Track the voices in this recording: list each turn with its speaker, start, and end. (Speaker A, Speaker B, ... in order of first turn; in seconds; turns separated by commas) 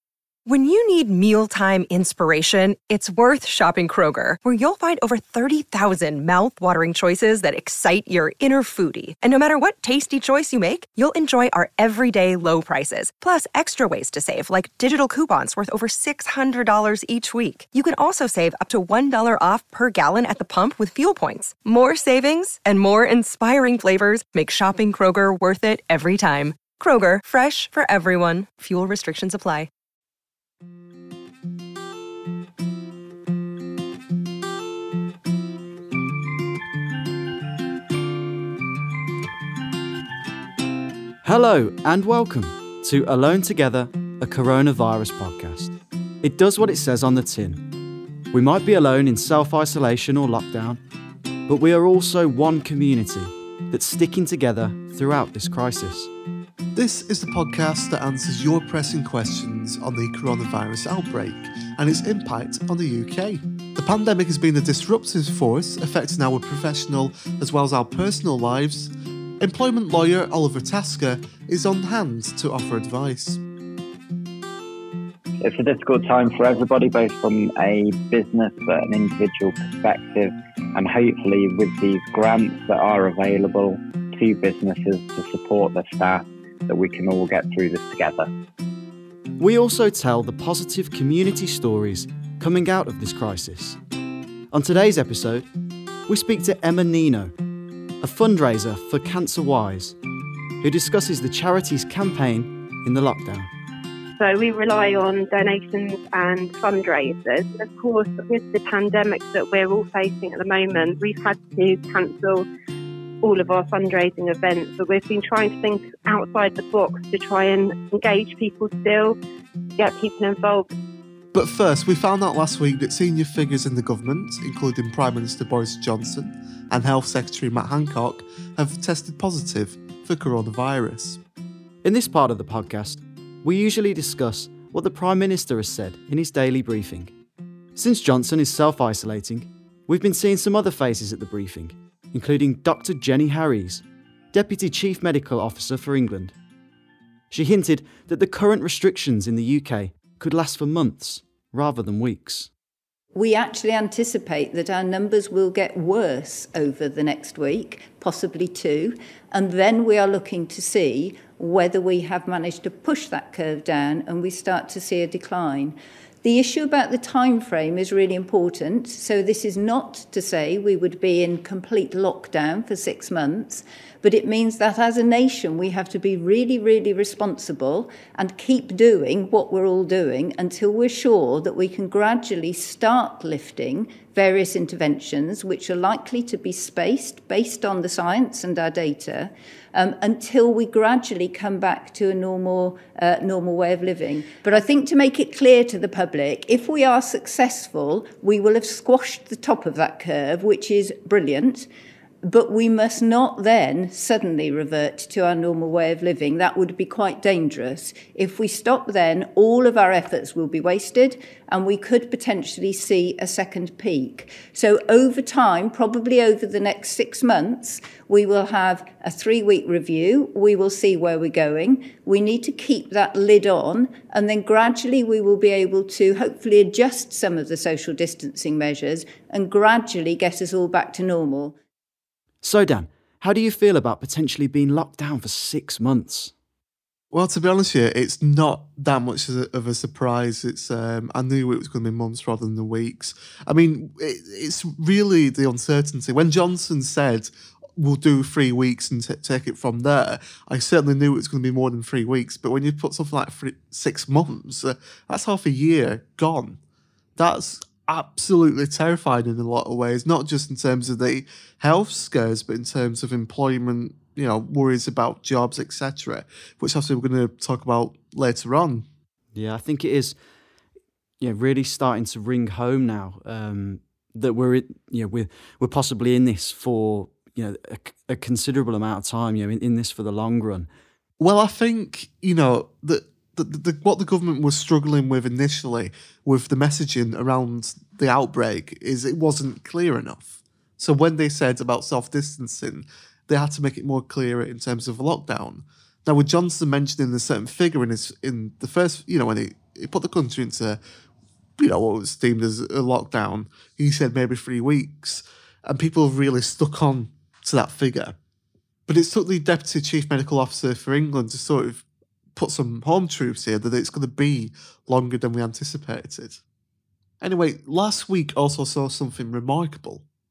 Speaker A: 0.5-29.7, Speaker B: 41.2-47.6, Speaker B: 48.3-50.8, Speaker B: 51.5-56.1, Speaker C: 56.7-73.4, Speaker D: 75.4-88.3, Speaker B: 89.4-93.8, Speaker B: 94.5-95.5, Speaker B: 96.1-97.3, Speaker B: 98.0-100.0, Speaker B: 100.6-103.5, Speaker E: 104.2-112.5, Speaker E: 113.2-119.2, Speaker E: 119.8-120.7, Speaker C: 121.3-131.2, Speaker B: 131.8-137.1, Speaker B: 137.8-146.3, Speaker B: 147.3-152.5, Speaker F: 153.1-201.7, Speaker F: 202.2-231.5, Speaker B: 232.4-236.3, Speaker C: 237.1-256.6, Speaker C: 257.2-268.9, Speaker B: 269.3-270.1, Speaker B: 271.2-280.7, Speaker C: 281.2-300.8, Speaker C: 301.6-308.1, Speaker C: 308.9-311.8, Speaker C: 312.4-316.4, Speaker C: 317.2-320.0